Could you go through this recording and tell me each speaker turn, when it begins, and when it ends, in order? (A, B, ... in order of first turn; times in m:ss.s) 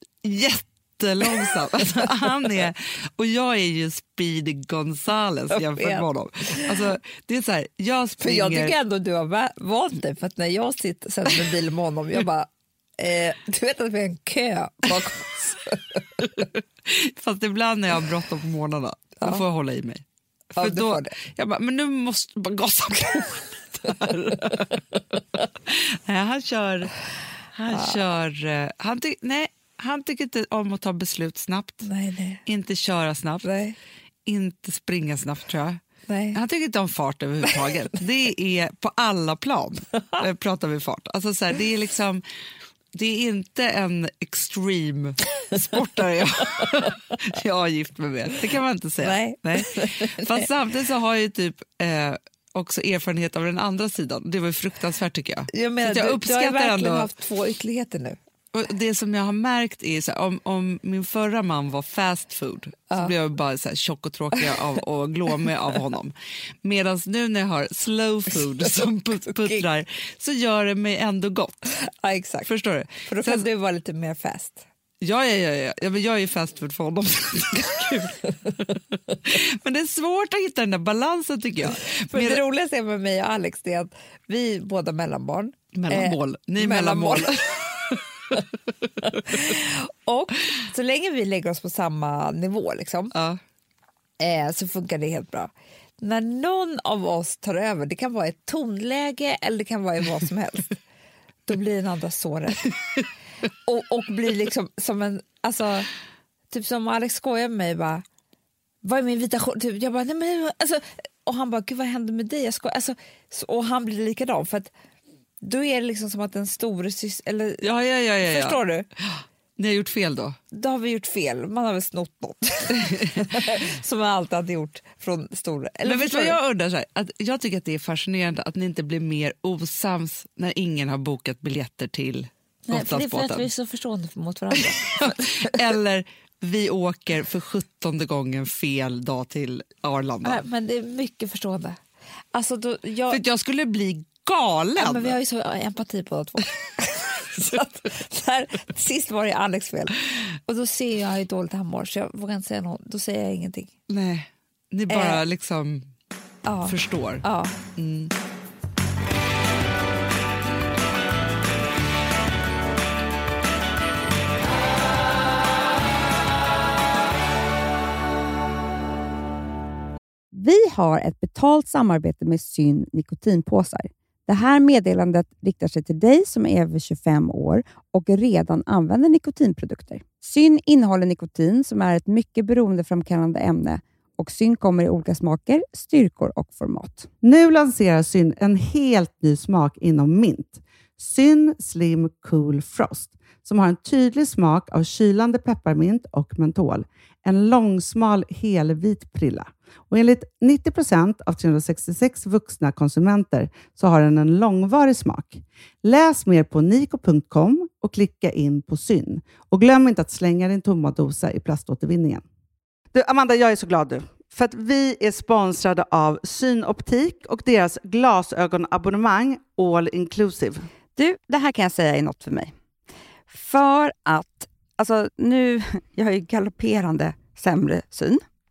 0:00.2-0:08.7 A
0:01.4-0:02.1 B
0:05.5-0:06.8 B
0:08.2-0:16.4 B
0:16.3-0:20.0 A
0:20.6-0:21.2 B
0:20.6-0:24.8 A
0:25.6-0:27.0 A
0:27.5-0:31.9 A
0:31.8-0:32.4 B
0:32.4-0:33.5 A
0:33.4-0:33.8 B
0:34.2-0:35.8 A
0:36.1-0:36.4 B
0:36.3-0:42.2 A
0:42.9-0:57.1 A
0:49.0-0:50.5 B
0:55.5-0:58.2 B
0:58.5-1:11.8 A
1:09.3-1:09.6 B
1:11.8-1:12.5 B
1:12.4-1:13.4 A
1:13.0-1:14.6 B
1:15.0-1:22.4 A
1:22.1-1:27.6 B
1:25.7-1:28.4 A
1:29.0-1:33.1 B
1:29.0-1:29.4 A
1:33.1-1:33.4 A
1:34.2-1:40.8 B
1:41.4-1:42.8 B
1:43.6-1:45.9 B
1:46.5-1:48.0 B
1:48.8-1:54.7 B
1:55.4-1:57.6 B
1:57.6-2:00.4 A
1:58.2-1:58.9 B
2:00.5-2:06.4 B
2:02.7-2:03.2 A
2:05.8-2:13.5 A
2:12.7-2:15.6 B
2:14.7-2:20.4 A
2:20.2-2:21.8 B
2:22.3-2:23.2 B
2:23.1-2:25.2 A
2:24.8-2:33.7 B
2:33.9-2:35.9 A
2:34.9-2:35.2 B
2:36.4-2:37.6 B
2:36.6-2:37.2 A
2:37.8-2:38.1 A
2:50.3-3:07.1 C
3:07.2-3:32.2 D
3:32.9-3:40.7 D
3:41.0-3:42.5 C
3:43.3-3:48.2 C